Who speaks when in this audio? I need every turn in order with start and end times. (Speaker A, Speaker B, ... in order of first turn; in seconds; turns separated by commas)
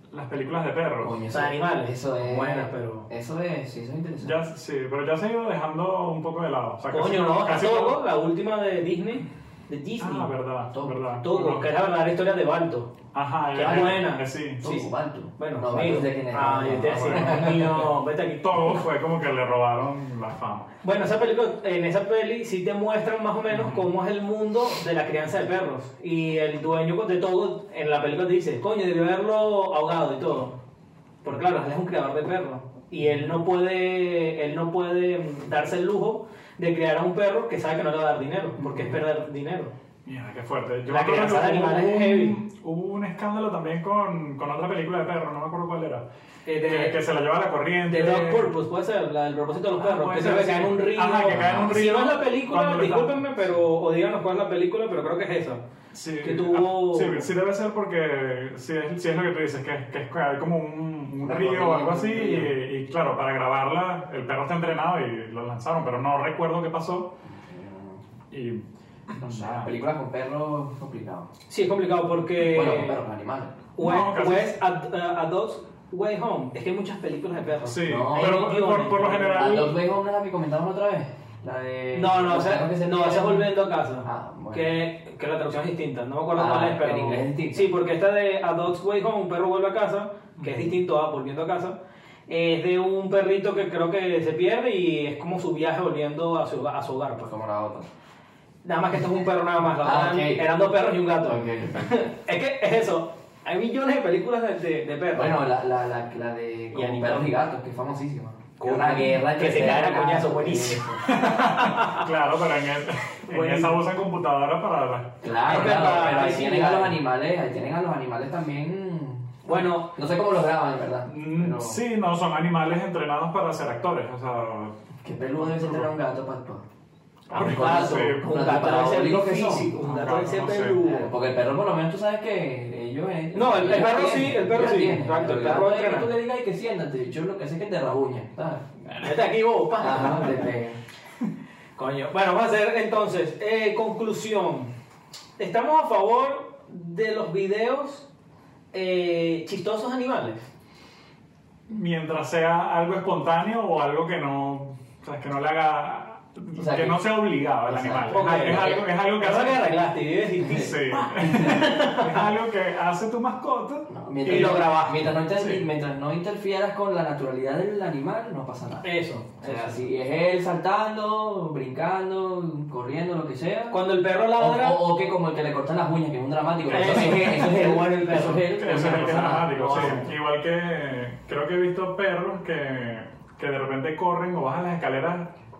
Speaker A: 0.1-1.2, Speaker B: 1.0-4.4, Speaker C: 1.3-3.1, Speaker A: 4.2-8.0, Speaker C: 6.9-10.3, Speaker A: 10.0-11.7, Speaker B: 10.7-11.0, Speaker C: 11.2-12.9, Speaker A: 13.1-14.7, Speaker C: 13.5-18.8, Speaker B: 13.6-14.0, Speaker B: 14.6-17.9, Speaker A: 16.9-17.6, Speaker A: 18.4-20.7, Speaker C: 20.8-30.6, Speaker A: 23.5-23.9, Speaker C: 31.2-39.7, Speaker B: 38.6-39.0, Speaker A: 40.0-46.0, Speaker C: 40.9-42.4, Speaker C: 46.5-47.0, Speaker A: 46.7-48.5, Speaker C: 47.9-55.6, Speaker A: 49.8-53.3, Speaker B: 51.3-51.7, Speaker A: 55.9-67.1, Speaker C: 56.2-57.3, Speaker B: 61.2-62.5, Speaker B: 67.3-68.0, Speaker A: 68.3-69.7, Speaker B: 69.2-71.3, Speaker C: 71.5-73.0, Speaker B: 72.4-73.6, Speaker C: 73.8-79.7, Speaker A: 73.8-74.6, Speaker A: 77.7-79.8, Speaker B: 77.7-78.4, Speaker B: 79.3-83.5, Speaker C: 81.9-91.8, Speaker B: 84.0-84.8, Speaker B: 86.3-87.7, Speaker A: 90.4-90.7, Speaker C: 92.3-97.3, Speaker B: 97.2-97.9, Speaker C: 98.6-105.4, Speaker B: 99.8-100.5, Speaker B: 101.2-102.0, Speaker B: 105.1-111.0, Speaker C: 106.7-107.3, Speaker C: 108.6-112.0, Speaker A: 111.0-115.2, Speaker C: 113.3-113.8, Speaker B: 115.2-121.8, Speaker C: 115.5-117.0, Speaker C: 119.5-119.9, Speaker A: 121.1-124.8, Speaker B: 125.0-126.6, Speaker A: 125.4-125.9, Speaker A: 127.3-128.4, Speaker C: 127.3-131.1, Speaker B: 127.3-129.7, Speaker A: 129.8-130.8, Speaker B: 130.8-138.7, Speaker C: 133.3-136.1, Speaker C: 138.8-140.5, Speaker B: 139.8-140.8, Speaker C: 141.8-144.7, Speaker C: 145.4-148.1, Speaker C: 148.7-150.5, Speaker A: 151.7-159.7, Speaker B: 156.6-157.0, Speaker B: 157.7-158.8, Speaker C: 158.1-162.3, Speaker B: 160.4-160.7, Speaker A: 160.4-164.7, Speaker B: 163.9-168.9, Speaker C: 164.2-165.1, Speaker A: 165.2-165.7, Speaker C: 168.8-169.8, Speaker B: 169.4-173.8, Speaker C: 173.7-174.8, Speaker B: 174.3-180.1, Speaker C: 176.7-180.1, Speaker A: 178.4-185.3